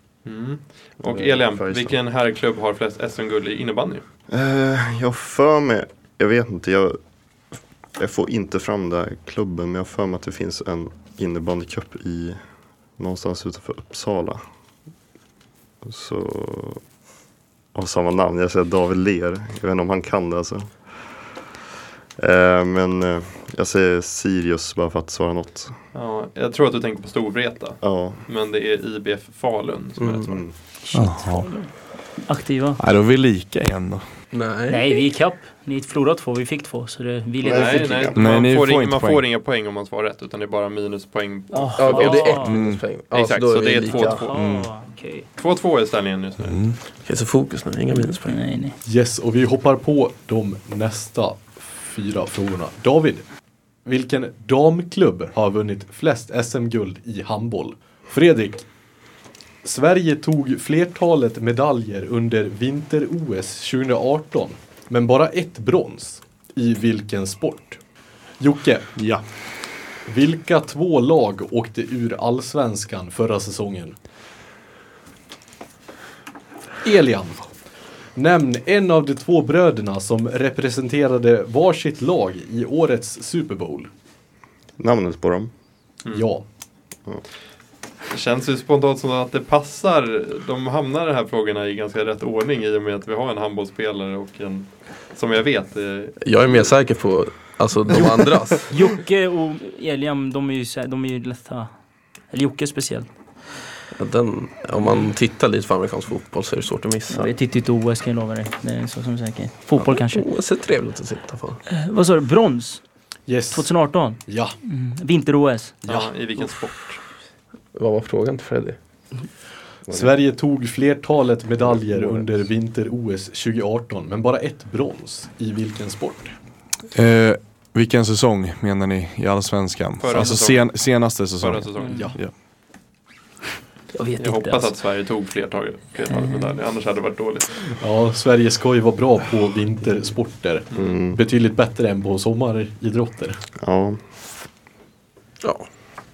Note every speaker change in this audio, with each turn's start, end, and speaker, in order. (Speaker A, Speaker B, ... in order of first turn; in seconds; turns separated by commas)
Speaker A: 0.2-4.0, Speaker B: 1.0-2.0, Speaker B: 4.3-7.0, Speaker B: 8.0-12.4, Speaker B: 13.0-14.4, Speaker B: 15.8-16.8, Speaker B: 17.7-20.8, Speaker B: 22.2-25.7, Speaker A: 25.9-30.4, Speaker B: 27.8-28.2, Speaker C: 30.0-30.3, Speaker B: 30.2-30.5, Speaker D: 30.8-31.7, Speaker E: 30.9-31.5, Speaker D: 32.2-32.8, Speaker E: 32.8-34.0, Speaker C: 34.3-34.8, Speaker D: 34.7-38.1, Speaker B: 37.4-38.2, Speaker A: 37.5-42.4, Speaker E: 38.1-39.2, Speaker D: 41.5-42.6, Speaker C: 41.8-44.3, Speaker E: 42.5-42.8, Speaker A: 43.1-44.3, Speaker D: 43.9-45.2, Speaker E: 44.3-44.6, Speaker A: 45.4-46.6, Speaker E: 46.4-46.8, Speaker C: 47.0-48.4, Speaker D: 48.0-48.8, Speaker F: 48.8-53.2, Speaker F: 53.8-58.7, Speaker F: 59.6-67.8, Speaker F: 68.4-68.9, Speaker E: 69.0-69.2, Speaker F: 70.0-74.0, Speaker F: 76.8-77.5, Speaker F: 78.1-83.9, Speaker B: 84.8-85.5, Speaker F: 86.1-86.4, Speaker A: 88.1-96.2, Speaker C: 96.2-98.7, Speaker D: 98.7-101.7, Speaker D: 102.3-103.1, Speaker C: 104.0-107.3, Speaker D: 107.1-110.2, Speaker C: 109.8-111.6, Speaker D: 111.7-112.8, Speaker F: 113.3-114.5, Speaker D: 113.5-115.8, Speaker A: 115.8-117.0, Speaker F: 115.9-116.1, Speaker C: 117.7-118.8, Speaker F: 119.9-126.3, Speaker C: 122.0-122.2, Speaker E: 126.9-132.3, Speaker A: 130.0-132.1, Speaker D: 131.8-132.1, Speaker F: 131.9-132.2, Speaker D: 133.9-134.8, Speaker A: 134.2-137.8, Speaker D: 136.0-136.5, Speaker F: 137.8-143.4, Speaker B: 140.7-141.2, Speaker B: 143.6-144.0, Speaker C: 145.4-145.7